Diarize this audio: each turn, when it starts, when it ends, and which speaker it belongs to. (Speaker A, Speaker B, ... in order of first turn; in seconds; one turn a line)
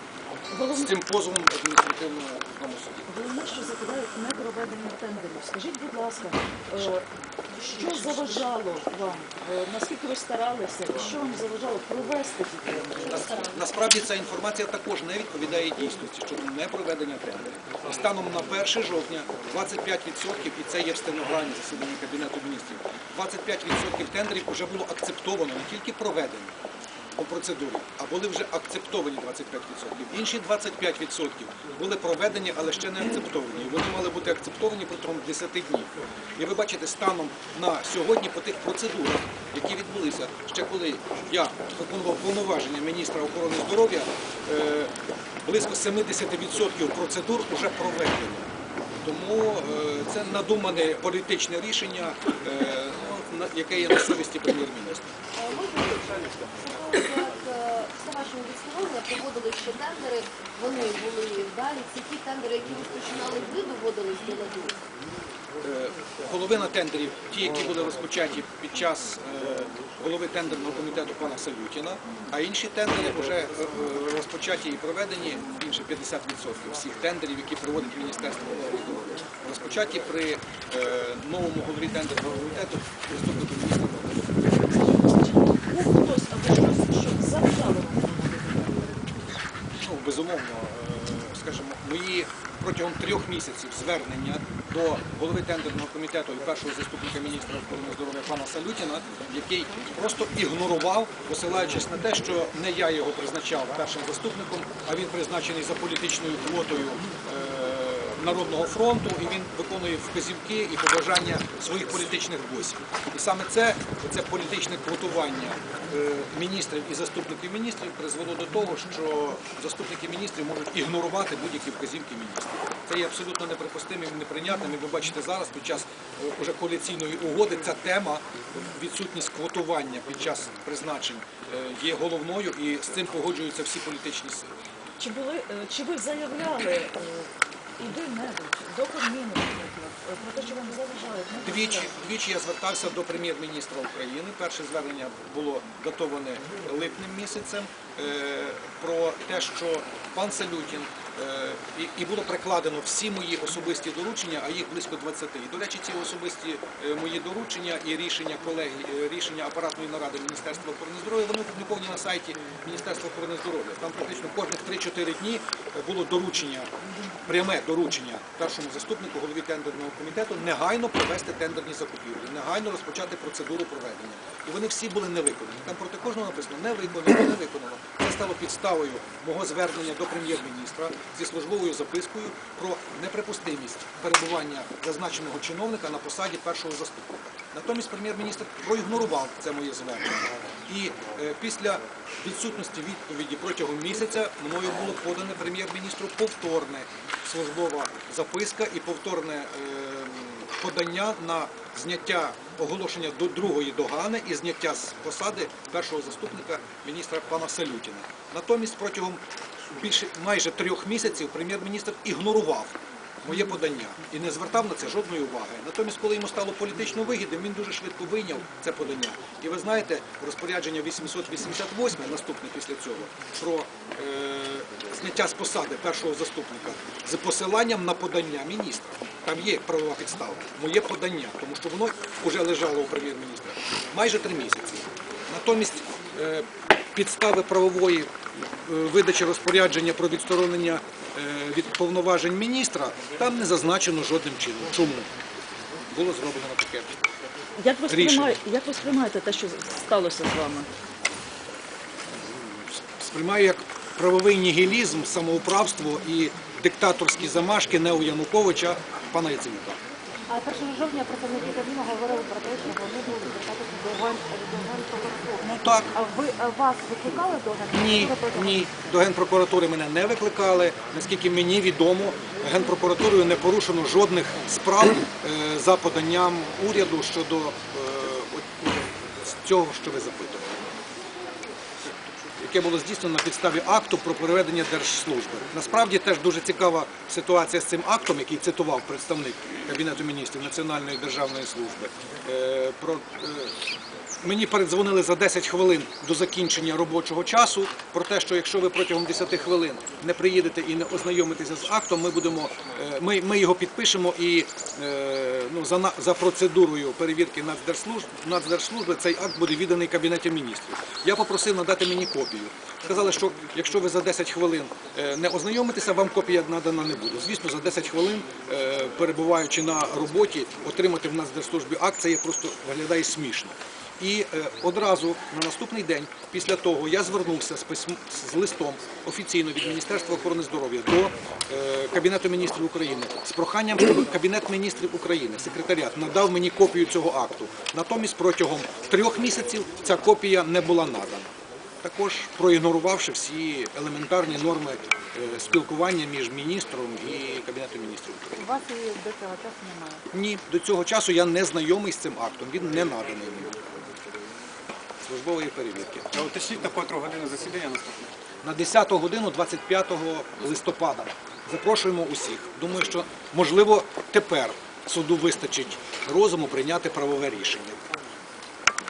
Speaker A: 0.5-0.9
Speaker B: 0.7-3.0
Speaker A: 3.1-13.2
Speaker B: 13.1-26.5
Speaker B: 27.2-44.9
Speaker B: 45.4-48.5
Speaker B: 49.0-55.1
Speaker C: 55.4-64.8
Speaker B: 65.6-84.3
Speaker A: 84.6-88.8
Speaker B: 89.7-134.5
Speaker A: 135.0-141.9
Speaker B: 141.4-166.7
Speaker B: 167.2-209.2
Speaker B: 209.7-245.1
Speaker B: 245.9-247.0
Speaker A: 247.6-250.7
Speaker B: 247.9-248.4
Speaker B: 252.1-259.8
Speaker D: 260.3-268.7
Speaker B: 265.4-265.9
Speaker B: 267.7-280.6
Speaker B: 281.8-293.5
Speaker B: 294.2-341.3
Speaker B: 341.8-348.4
Speaker D: 348.4-350.0
Speaker B: 350.1-353.5
Speaker B: 355.0-356.1
Speaker E: 356.1-358.1
Speaker B: 358.4-367.8